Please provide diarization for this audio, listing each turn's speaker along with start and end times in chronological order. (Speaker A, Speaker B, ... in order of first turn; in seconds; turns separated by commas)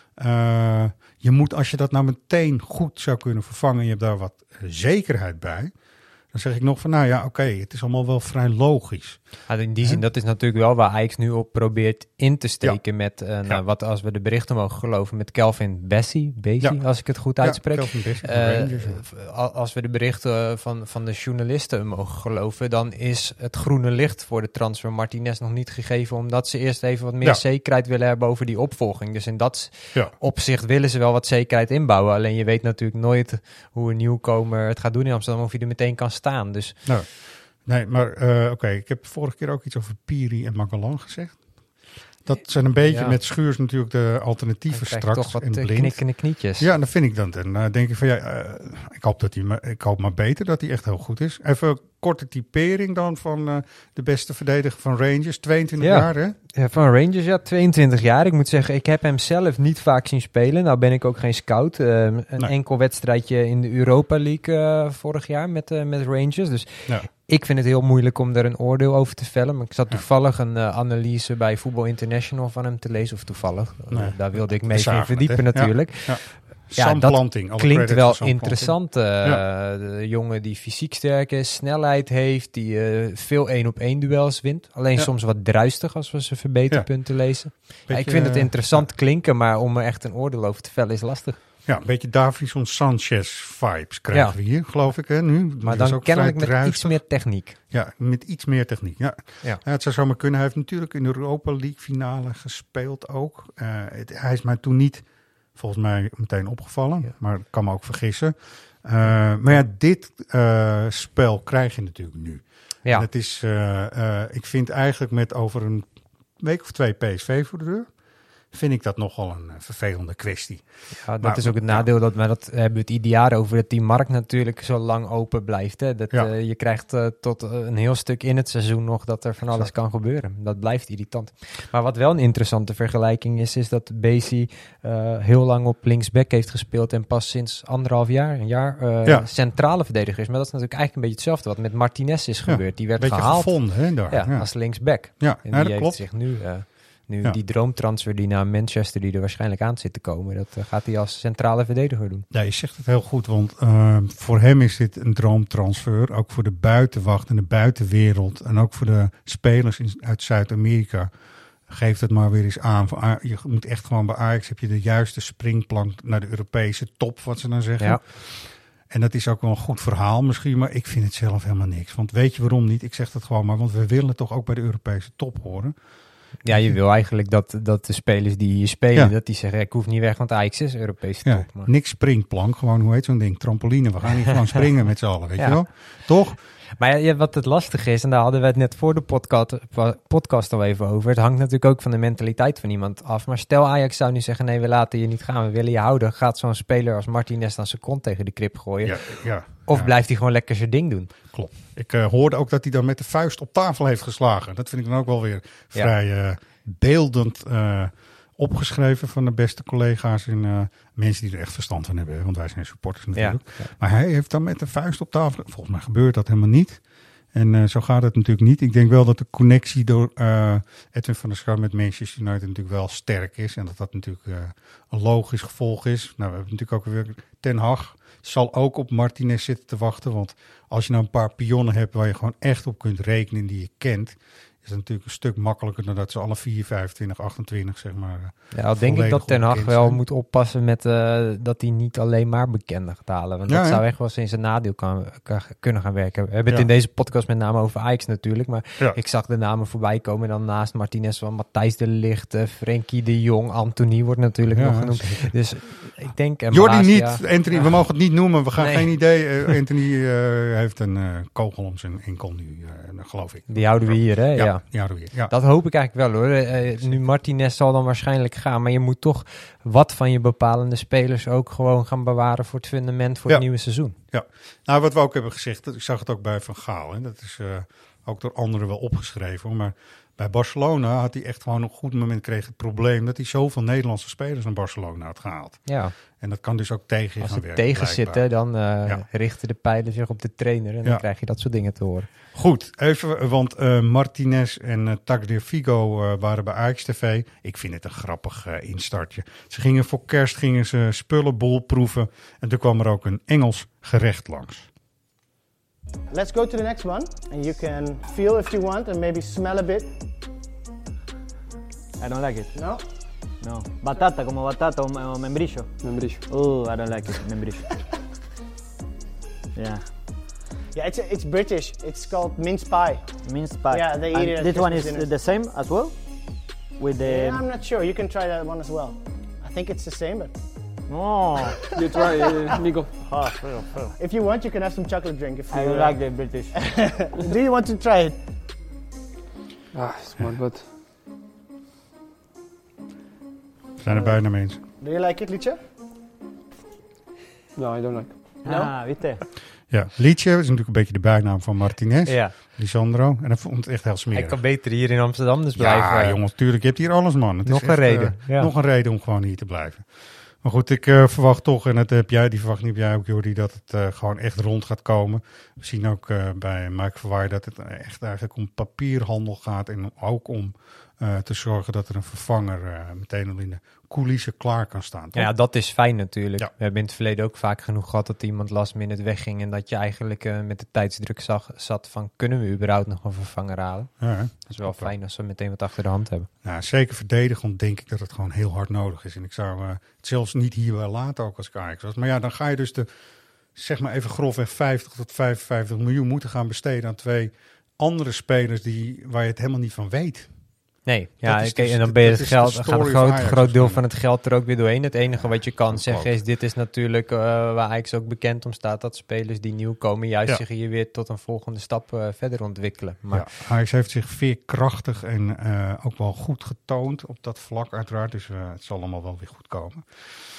Speaker A: 0.2-5.7, Speaker A: 6.3-9.2, Speaker B: 9.5-36.8, Speaker A: 16.6-19.0, Speaker A: 36.9-41.5, Speaker A: 42.2-46.0, Speaker B: 42.9-43.2, Speaker B: 44.7-46.7, Speaker A: 46.6-56.4, Speaker B: 55.8-91.4, Speaker A: 73.9-79.4, Speaker A: 86.7-87.0, Speaker A: 87.9-88.9, Speaker A: 91.7-97.0, Speaker B: 95.7-97.6, Speaker A: 97.7-117.9, Speaker A: 118.5-120.7, Speaker B: 121.0-152.3, Speaker A: 121.2-121.9, Speaker A: 142.4-146.1, Speaker A: 152.3-161.1, Speaker A: 161.7-175.8, Speaker B: 176.4-181.7, Speaker A: 176.5-176.8, Speaker A: 181.2-186.4, Speaker B: 185.4-185.6, Speaker B: 186.8-199.0, Speaker A: 198.8-199.9, Speaker B: 199.5-201.1, Speaker A: 201.3-216.8, Speaker B: 213.2-213.7, Speaker A: 217.3-240.0, Speaker B: 238.5-257.7, Speaker A: 243.5-243.8, Speaker A: 254.5-255.4, Speaker A: 256.5-265.3, Speaker B: 258.6-259.0, Speaker B: 263.5-273.9, Speaker A: 274.0-288.3, Speaker B: 285.7-285.9, Speaker B: 287.2-292.1, Speaker A: 292.3-304.7, Speaker C: 306.1-309.9, Speaker D: 312.0-312.5, Speaker C: 312.5-312.8, Speaker D: 313.4-315.7, Speaker E: 315.8-316.3, Speaker D: 316.3-317.6, Speaker D: 319.6-319.9, Speaker C: 320.7-323.2, Speaker D: 323.2-326.0, Speaker C: 323.7-325.1, Speaker D: 326.8-327.5, Speaker C: 327.0-330.3, Speaker D: 330.9-331.6, Speaker C: 331.4-332.3, Speaker E: 331.8-333.0, Speaker D: 333.0-333.9, Speaker C: 334.0-338.2, Speaker D: 335.5-336.6, Speaker E: 339.7-340.7, Speaker A: 343.8-344.6, Speaker C: 343.9-344.2, Speaker C: 344.8-345.6, Speaker E: 347.6-348.2, Speaker D: 348.4-349.2, Speaker C: 348.5-348.7, Speaker A: 349.7-354.4, Speaker B: 352.1-352.4, Speaker B: 354.1-356.2, Speaker A: 355.6-359.9, Speaker B: 357.5-358.5, Speaker A: 360.4-375.3, Speaker B: 375.1-383.9, Speaker A: 384.0-384.9, Speaker B: 384.5-386.3, Speaker A: 386.4-392.9, Speaker A: 393.6-400.3, Speaker B: 400.9-413.3, Speaker A: 401.2-403.8, Speaker A: 405.1-406.1, Speaker A: 413.1-419.9